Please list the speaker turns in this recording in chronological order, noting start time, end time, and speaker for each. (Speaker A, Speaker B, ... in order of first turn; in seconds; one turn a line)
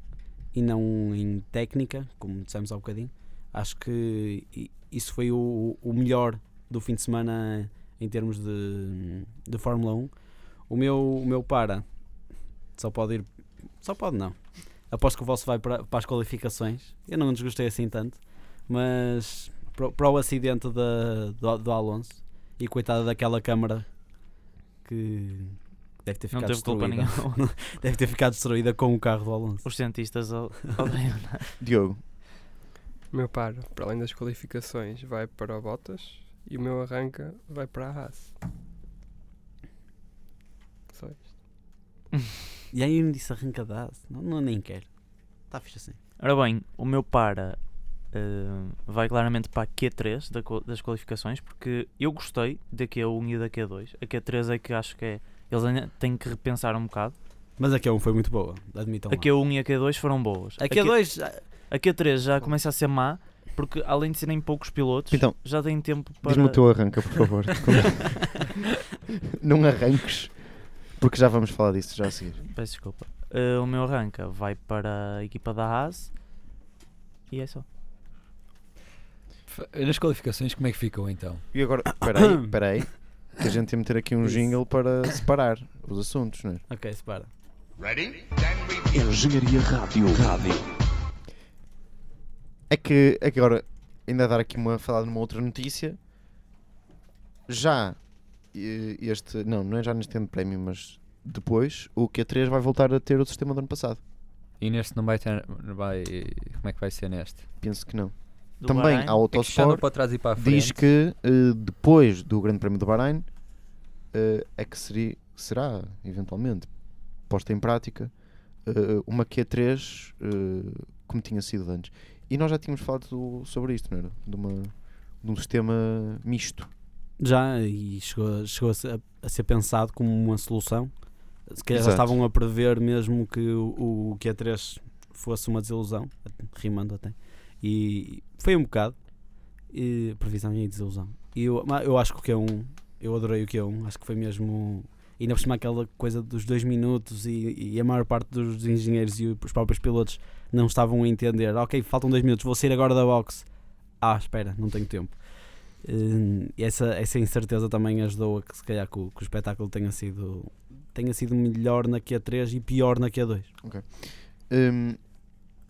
Speaker A: 0.5-11.9
Speaker A: 12.7-23.9
Speaker A: 24.8-29.6
Speaker B: 26.3-27.4
Speaker B: 29.6-31.5
Speaker C: 31.6-32.0
Speaker D: 33.1-38.3
Speaker D: 40.9-41.3
Speaker A: 42.7-44.9
Speaker A: 45.5-46.0
Speaker B: 46.2-47.6
Speaker B: 48.1-57.1
Speaker A: 57.6-59.3
Speaker B: 59.1-61.1
Speaker A: 60.6-61.4
Speaker B: 61.7-66.6
Speaker C: 65.1-65.4
Speaker C: 66.2-68.5
Speaker C: 69.3-70.4
Speaker C: 70.9-72.4
Speaker B: 72.5-76.1
Speaker B: 77.3-77.6
Speaker E: 79.5-81.4
Speaker C: 81.5-86.6
Speaker A: 82.1-82.5
Speaker A: 84.2-84.5
Speaker A: 86.7-87.3
Speaker F: 87.8-90.6
Speaker C: 92.7-96.0
Speaker C: 97.5-98.0
Speaker C: 98.5-104.0
Speaker E: 104.6-107.4
Speaker C: 107.6-113.3
Speaker B: 108.6-109.2
Speaker E: 109.3-110.8
Speaker C: 114.1-116.7
Speaker C: 117.3-118.1
Speaker C: 118.6-126.7
Speaker A: 127.2-130.9
Speaker A: 131.5-139.0
Speaker C: 131.7-132.2
Speaker A: 139.7-153.5
Speaker A: 154.0-155.2
Speaker A: 155.8-163.5
Speaker C: 163.6-165.0